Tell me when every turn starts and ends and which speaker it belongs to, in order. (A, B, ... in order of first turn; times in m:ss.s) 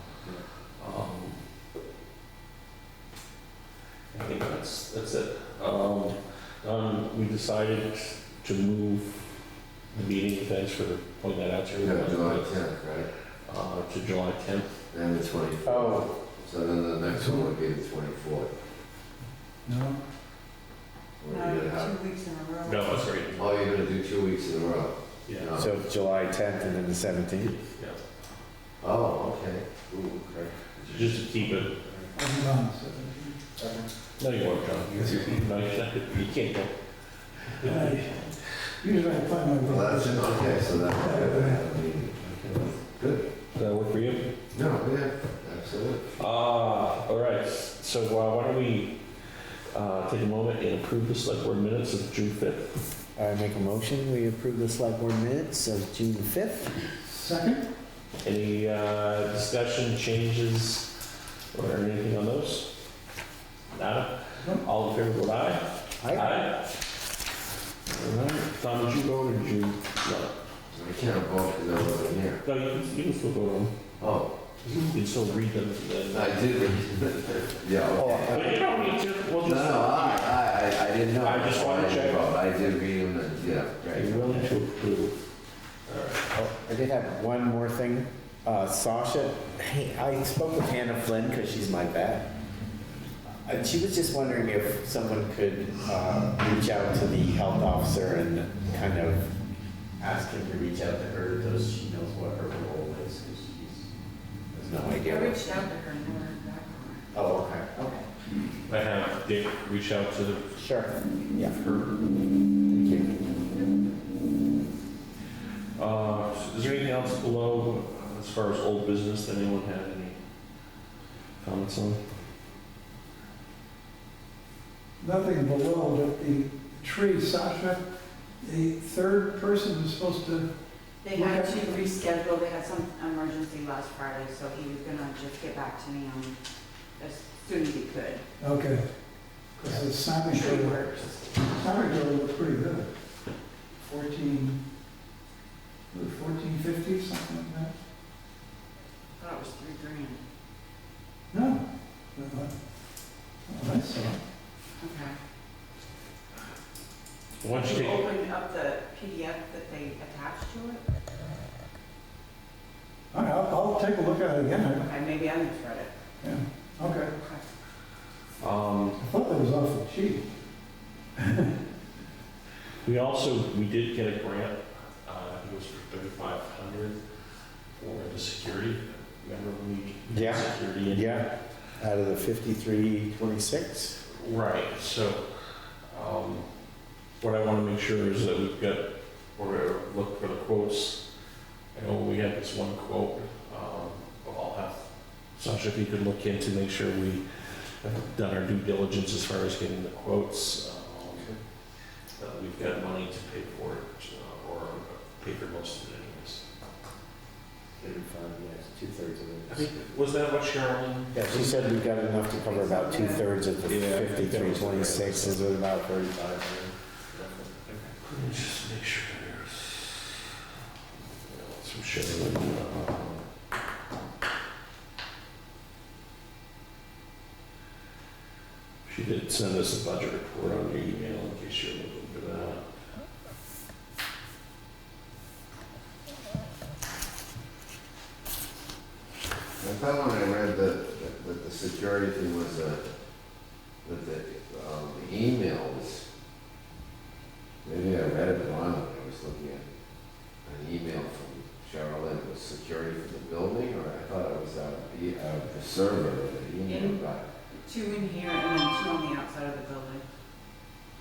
0:00.8-0:01.4 A
0:04.1-0:09.3 A
0:09.9-0:12.6 A
0:11.8-0:13.1 B
0:13.4-0:14.8 A
0:14.9-0:18.5 B
0:15.6-0:16.1 C
0:17.1-0:17.5 D
0:19.6-0:20.0 D
0:21.2-0:21.9 B
0:21.3-0:23.1 E
0:22.6-0:23.6 A
0:23.4-0:25.7 B
0:25.3-0:25.6 A
0:25.6-0:27.5 C
0:27.4-0:28.0 A
0:28.8-0:30.7 B
0:30.8-0:31.8 A
0:32.1-0:33.4 D
0:34.2-0:36.8 A
0:35.0-0:35.2 D
0:37.4-0:38.0 A
0:37.6-0:41.7 D
0:39.6-0:43.2 B
0:43.5-0:44.3 A
0:44.5-0:46.2 B
0:46.2-0:49.0 A
0:49.7-0:52.8 A
0:53.2-0:56.8 C
0:57.0-0:57.7 D
0:58.2-1:00.9 A
1:01.5-1:02.7 A
1:03.7-1:06.8 A
1:06.0-1:06.4 C
1:07.9-1:10.4 A
1:10.7-1:12.4 B
1:12.4-1:13.8 A
1:14.0-1:14.3 B
1:14.6-1:16.4 A
1:16.1-1:24.5 B
1:17.9-1:18.5 C
1:18.2-1:20.4 A
1:21.2-1:22.2 A
1:23.9-1:25.2 A
1:25.9-1:26.2 A
1:26.3-1:32.3 C
1:33.4-1:39.3 C
1:40.0-1:43.9 C
1:44.5-1:45.5 C
1:45.0-1:47.1 E
1:47.1-1:48.0 C
1:48.7-1:50.6 A
1:50.6-1:51.6 C
1:51.4-1:52.0 A
1:52.6-1:53.1 C
1:55.8-2:00.2 A
2:01.4-2:02.0 A
2:05.0-2:07.8 D
2:08.4-2:10.5 D
2:11.0-2:16.4 E
2:11.1-2:11.7 D
2:17.0-2:18.2 E
2:18.4-2:18.8 D
2:19.6-2:20.8 D
2:19.7-2:21.7 E
2:21.4-2:22.9 D
2:23.8-2:24.6 D
2:25.9-2:27.7 D
2:29.2-2:30.2 E
2:31.3-2:32.5 D
2:33.5-2:34.2 D
2:34.8-2:35.2 E
2:37.4-2:38.1 A
2:37.5-2:40.8 E
2:43.1-2:44.8 D
2:44.7-2:45.9 E
2:46.2-2:47.1 D
2:47.2-2:47.4 E
2:48.4-2:49.0 A
2:49.0-2:50.3 D
2:51.2-2:51.6 D
2:52.8-2:57.0 A
2:57.8-3:01.3 A
3:00.1-3:04.0 C
3:04.1-3:06.5 A
3:07.2-3:11.0 A
3:11.7-3:17.2 A
3:17.8-3:21.3 A
3:22.2-3:26.4 A
3:27.8-3:29.7 C
3:29.5-3:31.6 A
3:31.1-3:37.9 C
3:32.4-3:33.2 E
3:33.6-3:35.4 A
3:38.0-3:40.2 A
3:41.2-3:43.2 A
3:48.8-3:52.7 A
3:59.6-4:02.8 B
4:03.8-4:06.0 B
4:07.6-4:09.6 B
4:10.4-4:17.2 B
4:16.6-4:17.0 E
4:17.6-4:20.0 E